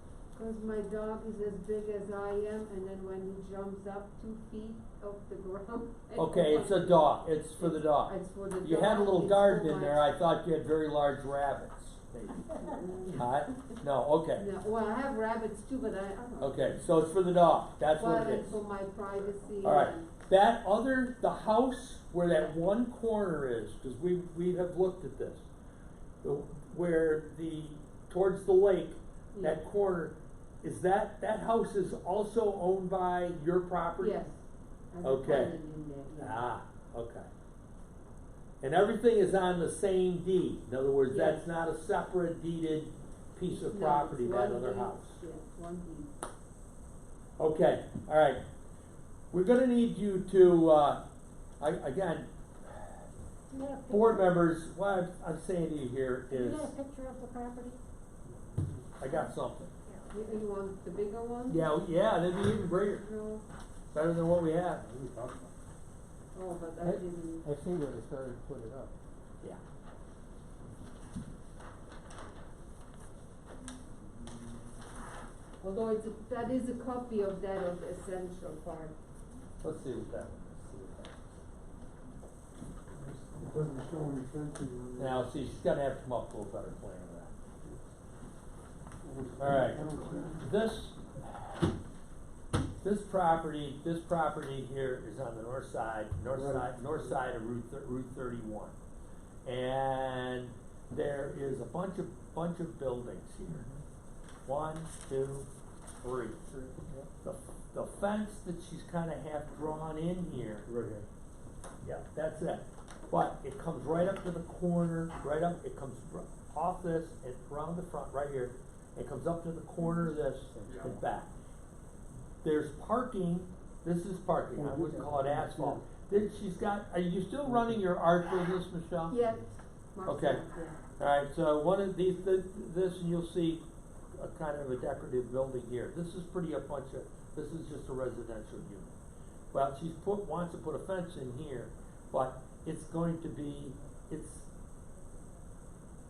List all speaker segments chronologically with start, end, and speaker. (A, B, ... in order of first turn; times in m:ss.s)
0:00.3-0:10.0 A
0:06.2-0:12.5 B
0:12.7-0:13.2 A
0:13.1-0:14.5 B
0:14.3-0:16.7 A
0:16.4-0:18.6 B
0:18.0-0:20.1 A
0:19.6-0:25.4 B
0:22.3-0:22.6 A
0:26.2-0:34.2 B
0:29.3-0:29.6 A
0:34.0-0:34.4 A
0:34.9-0:36.4 A
0:35.0-0:35.5 B
0:36.2-0:37.3 B
0:38.6-0:45.2 B
0:41.1-0:41.4 A
0:43.5-0:46.1 A
0:47.4-0:48.4 B
0:49.3-0:51.0 B
0:51.6-0:53.0 B
0:53.5-0:54.2 C
0:53.9-0:56.7 B
0:56.3-0:57.8 C
0:59.0-0:59.7 B
1:00.1-1:01.8 A
1:01.5-1:03.0 B
1:02.6-1:03.4 A
1:03.9-1:04.8 B
1:04.9-1:05.5 D
1:06.3-1:07.5 A
1:06.8-1:08.9 E
1:15.6-1:19.0 A
1:19.6-1:21.1 B
1:23.3-1:25.2 D
1:25.0-1:27.3 B
1:29.1-1:30.4 D
1:29.4-1:31.0 B
1:32.8-1:38.7 B
1:36.3-1:36.6 D
1:39.4-1:43.7 B
1:43.5-1:43.8 E
1:44.5-1:45.5 B
1:46.0-1:46.5 B
1:46.5-1:47.1 E
1:47.2-1:50.7 B
1:50.7-1:51.1 E
1:51.8-2:01.3 B
2:00.5-2:00.9 E
2:02.4-2:09.2 B
2:04.7-2:05.8 E
2:09.1-2:10.8 A
2:10.1-2:10.4 B
2:11.0-2:13.6 B
2:14.1-2:18.9 B
2:19.5-2:24.5 B